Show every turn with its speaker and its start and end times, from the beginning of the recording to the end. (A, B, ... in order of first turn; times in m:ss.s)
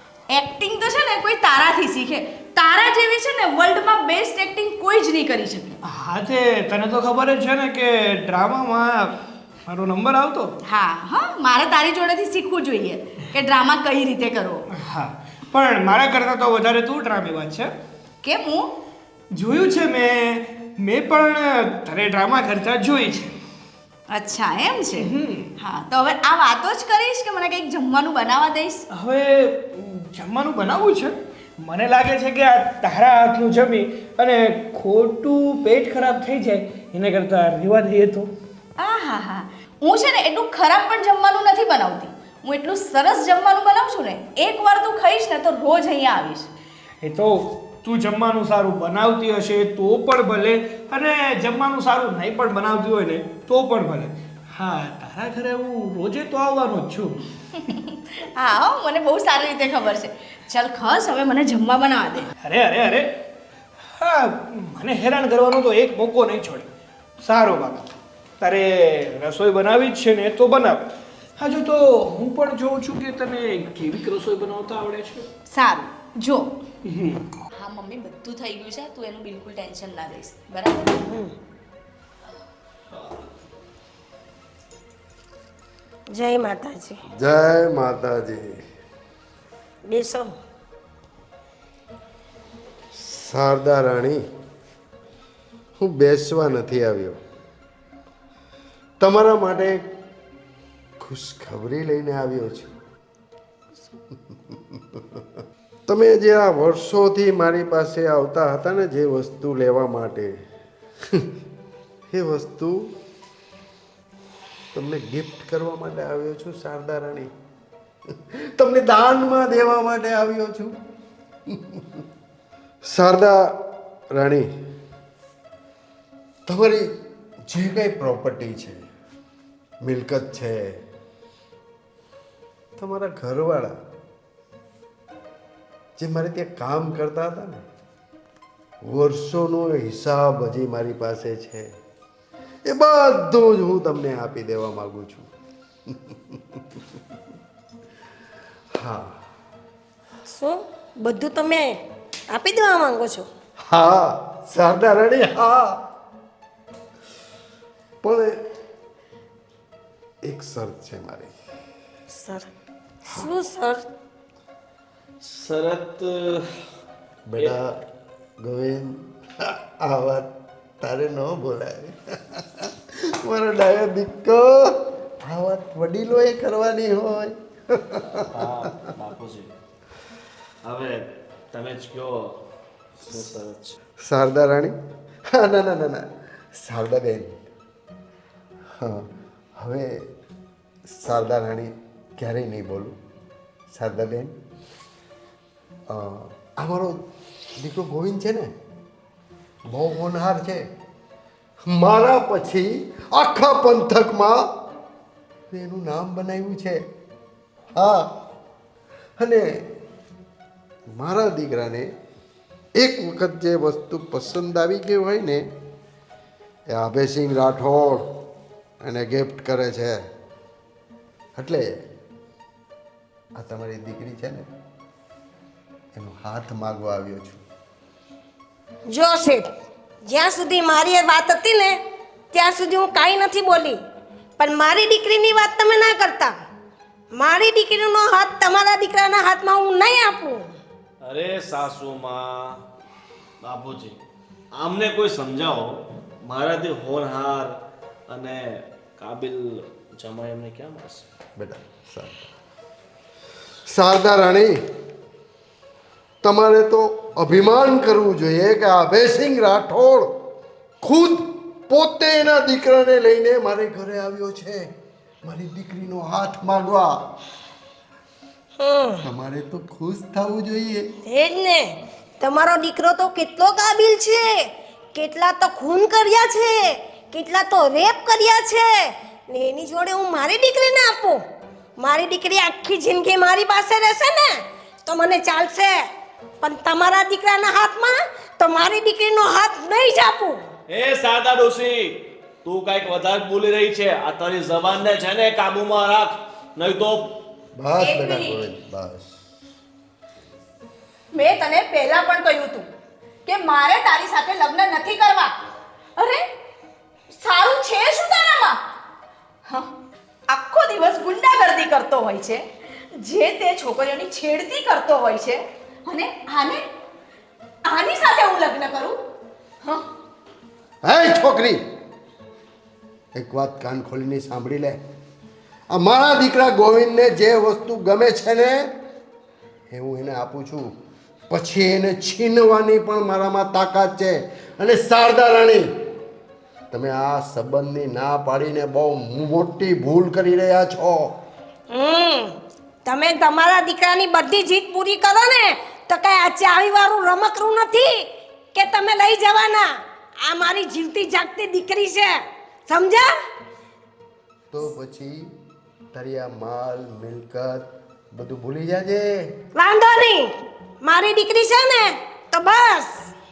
0:00.3-0:05.8 A
0:05.9-0:10.5 B
0:10.6-0:14.6 A
0:14.8-0:17.7 B
0:18.2-0:18.7 A
0:19.3-0:23.3 B
0:24.1-0:28.8 A
0:24.9-0:25.5 B
0:28.9-0:38.3 B
0:38.8-0:46.5 A
0:47.0-0:57.2 B
0:57.6-1:02.3 A
1:02.4-1:03.1 B
1:04.0-1:06.7 B
1:07.2-1:10.9 B
1:11.4-1:15.3 B
1:15.5-1:16.5 A
1:16.8-1:17.2 B
1:17.5-1:21.0 A
1:21.1-1:21.3 C
1:26.1-1:27.0 C
1:27.1-1:28.5 D
1:29.9-1:30.3 C
1:33.0-1:34.2 D
1:35.8-1:37.2 D
1:39.0-1:39.8 D
1:41.0-1:42.7 D
1:44.3-1:45.2 D
1:45.9-1:50.4 D
1:52.1-1:52.9 D
1:54.7-1:57.3 D
1:58.6-2:00.7 D
2:01.5-2:02.0 D
2:02.9-2:03.4 D
2:04.1-2:04.5 D
2:06.5-2:06.9 D
2:07.5-2:08.8 D
2:09.8-2:10.8 D
2:12.8-2:13.8 D
2:16.0-2:17.6 D
2:18.8-2:21.7 D
2:22.7-2:25.3 D
2:25.9-2:26.8 D
2:28.8-2:29.2 D
2:30.3-2:31.8 C
2:32.3-2:33.3 C
2:33.7-2:35.8 D
2:38.0-2:38.4 D
2:40.2-2:41.3 D
2:42.1-2:42.5 C
2:43.1-2:43.8 C
2:45.2-2:46.4 E
2:47.3-2:47.8 D
2:48.4-2:49.0 D
2:49.8-2:50.3 D
2:50.8-2:52.7 D
2:53.2-2:58.3 D
2:58.3-2:59.5 E
3:00.6-3:02.4 E
3:03.0-3:03.8 E
3:04.0-3:04.8 D
3:05.3-3:06.0 D
3:06.6-3:07.4 D
3:08.8-3:09.1 D
3:09.6-3:09.9 D
3:10.9-3:13.0 D
3:13.7-3:14.3 D
3:15.9-3:17.0 D
3:17.6-3:18.5 D
3:19.7-3:20.6 D
3:21.7-3:24.4 D
3:25.5-3:26.8 D
3:27.8-3:28.1 D
3:29.2-3:29.5 D
3:31.0-3:31.9 D
3:32.8-3:35.5 D
3:36.7-3:38.1 D
3:38.8-3:40.0 D
3:41.4-3:41.7 D
3:43.4-3:44.5 D
3:46.0-3:47.4 D
3:48.9-3:49.4 C
3:50.1-3:51.8 C
3:52.3-3:53.8 C
3:54.4-3:56.3 C
3:57.1-4:00.5 C
4:01.0-4:02.6 E
4:03.4-4:04.0 E
4:04.6-4:07.6 E
4:08.1-4:11.1 E
4:11.4-4:12.3 D
4:13.7-4:14.6 D
4:16.2-4:20.1 D
4:20.8-4:24.7 D
4:25.2-4:27.0 D
4:28.6-4:29.0 C
4:29.0-4:30.9 D
4:31.0-4:41.2 C
4:41.8-4:45.8 C
4:46.4-4:50.4 C
4:50.7-4:57.2 E
4:57.6-4:59.1 D
4:57.8-4:58.4 A
5:01.1-5:02.7 A
5:03.2-5:05.3 A
5:06.0-5:06.2 A
5:07.1-5:08.6 A
5:10.3-5:12.4 A
5:13.0-5:16.6 A
5:17.6-5:19.0 A
5:20.8-5:21.6 D
5:23.2-5:24.8 D
5:25.7-5:28.7 D
5:29.7-5:30.7 D
5:31.3-5:35.7 D
5:36.7-5:41.1 D
5:41.7-5:49.7 C
5:50.2-5:52.2 C
5:52.7-5:53.1 C
5:54.5-5:55.3 D
5:55.9-5:59.3 D
5:59.6-6:03.1 C